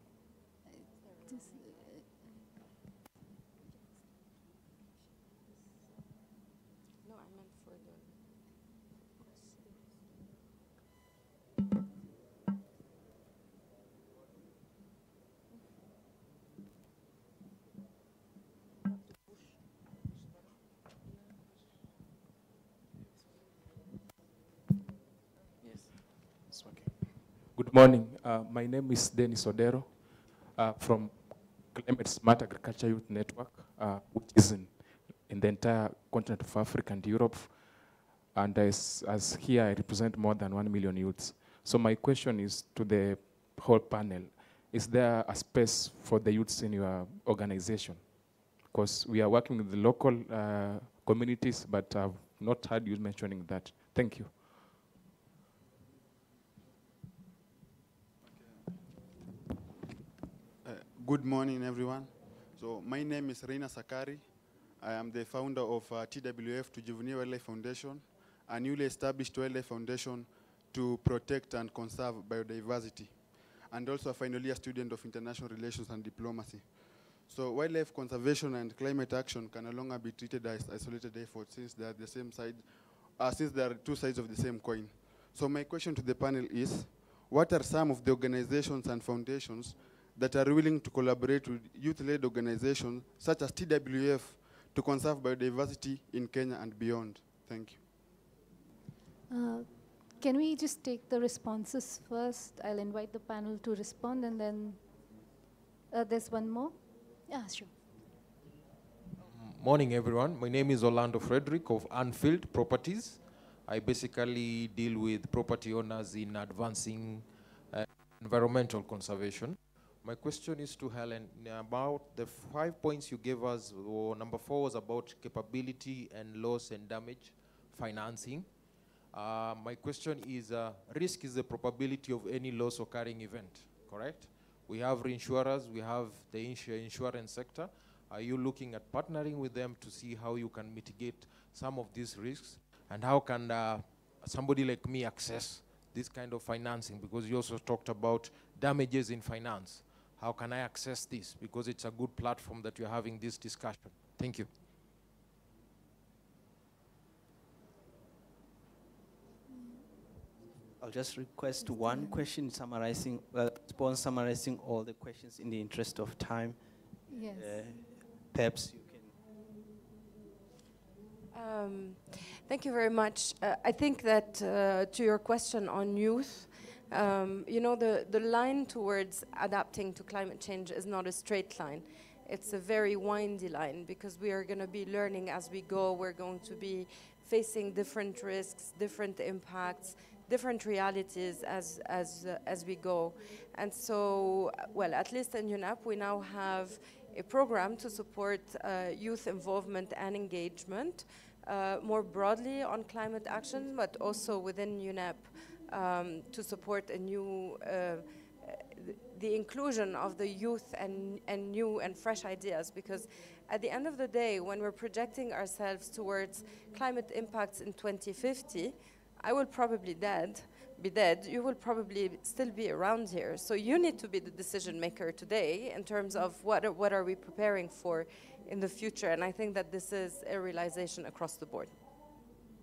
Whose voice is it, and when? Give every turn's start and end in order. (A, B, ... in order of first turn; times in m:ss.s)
0:01.0-0:01.8 A
0:01.3-0:01.6 B
0:07.0-0:08.1 A
0:26.5-0:54.7 C
1:00.6-1:37.8 D
1:39.3-1:45.0 B
1:45.9-1:47.8 B
1:49.3-2:08.5 E
2:09.1-2:34.5 E
2:39.5-2:39.8 B
2:40.8-2:49.1 F
2:41.6-2:42.3 B
2:47.1-2:47.9 B
2:51.3-3:51.7 A